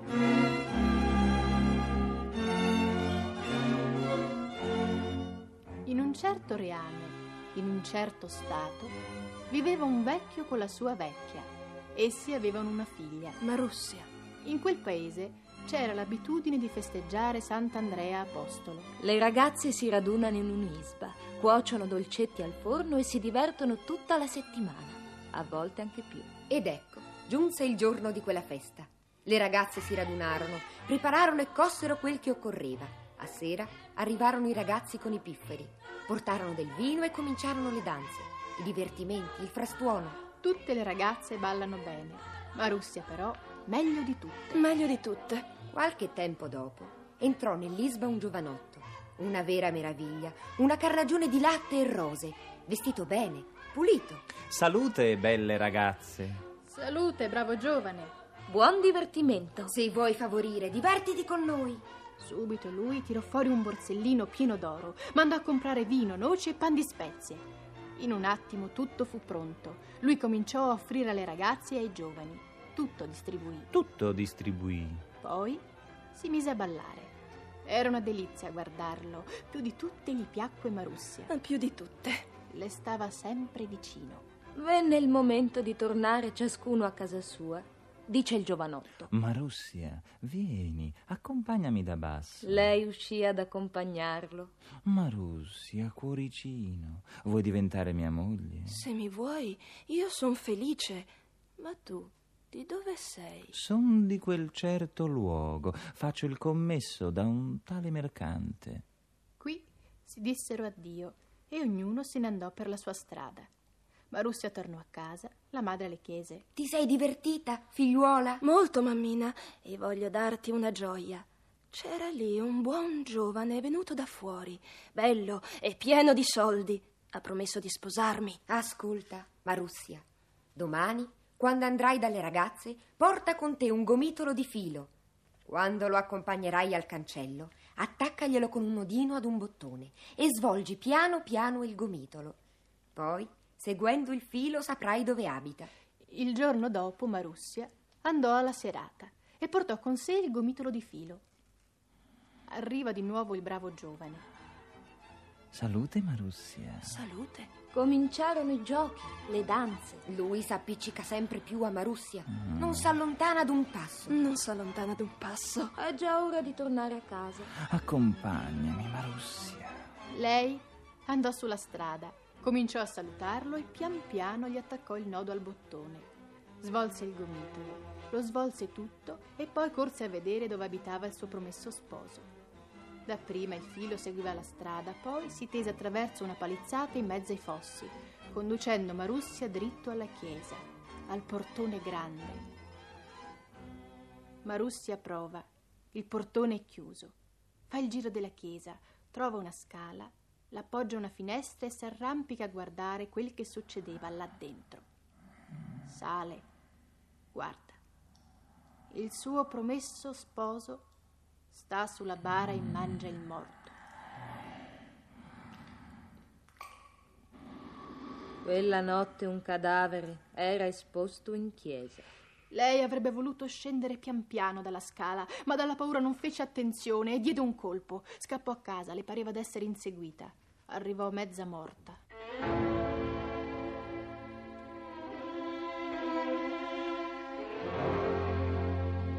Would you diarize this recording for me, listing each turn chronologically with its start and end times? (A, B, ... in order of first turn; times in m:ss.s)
0:05.8-0:09.0 A
0:09.5-0:13.4 A
0:13.4-0:14.1 B
0:14.4-0:18.9 A
0:19.0-0:26.3 C
0:26.5-0:40.2 D
0:40.4-0:44.6 A
0:44.6-0:45.5 B
0:45.7-0:54.2 D
0:54.5-0:56.4 E
0:56.7-0:58.1 A
0:58.5-0:59.7 C
0:59.7-1:01.8 D
1:02.2-1:07.4 A
1:08.0-1:13.7 A
1:13.7-1:15.0 E
1:15.2-1:15.6 A
1:16.1-1:17.1 A
1:17.6-1:21.3 A
1:21.3-1:22.3 B
1:22.5-1:24.2 A
1:24.5-1:29.1 C
1:29.1-1:32.7 E
1:32.4-1:34.5 C
1:34.8-1:38.8 E
1:38.7-1:43.5 B
1:43.5-1:48.8 E
1:49.4-1:53.5 A
1:54.1-1:56.4 A
1:56.6-1:58.4 D
1:58.4-2:08.4 B
2:08.5-2:10.0 D
2:10.5-2:14.9 D
2:15.4-2:22.4 D
2:22.9-2:25.7 D
2:26.0-2:31.2 A
2:32.5-2:34.2 A
2:35.5-2:37.0 E
2:36.8-2:37.5 B
2:37.7-2:40.0 C
2:40.1-2:44.2 D
2:42.3-2:42.9 E
2:44.1-2:45.7 B
2:45.8-2:47.5 C
2:47.7-2:49.8 E
2:50.1-2:56.1 A
2:56.6-3:02.3 A
3:03.1-3:12.5 A
3:14.4-3:17.1 A
3:17.7-3:24.8 A
3:25.8-3:26.4 A
3:27.3-3:27.8 A
3:28.9-3:30.8 A
3:31.5-3:33.7 A
3:38.4-3:42.1 C
3:42.5-3:52.0 A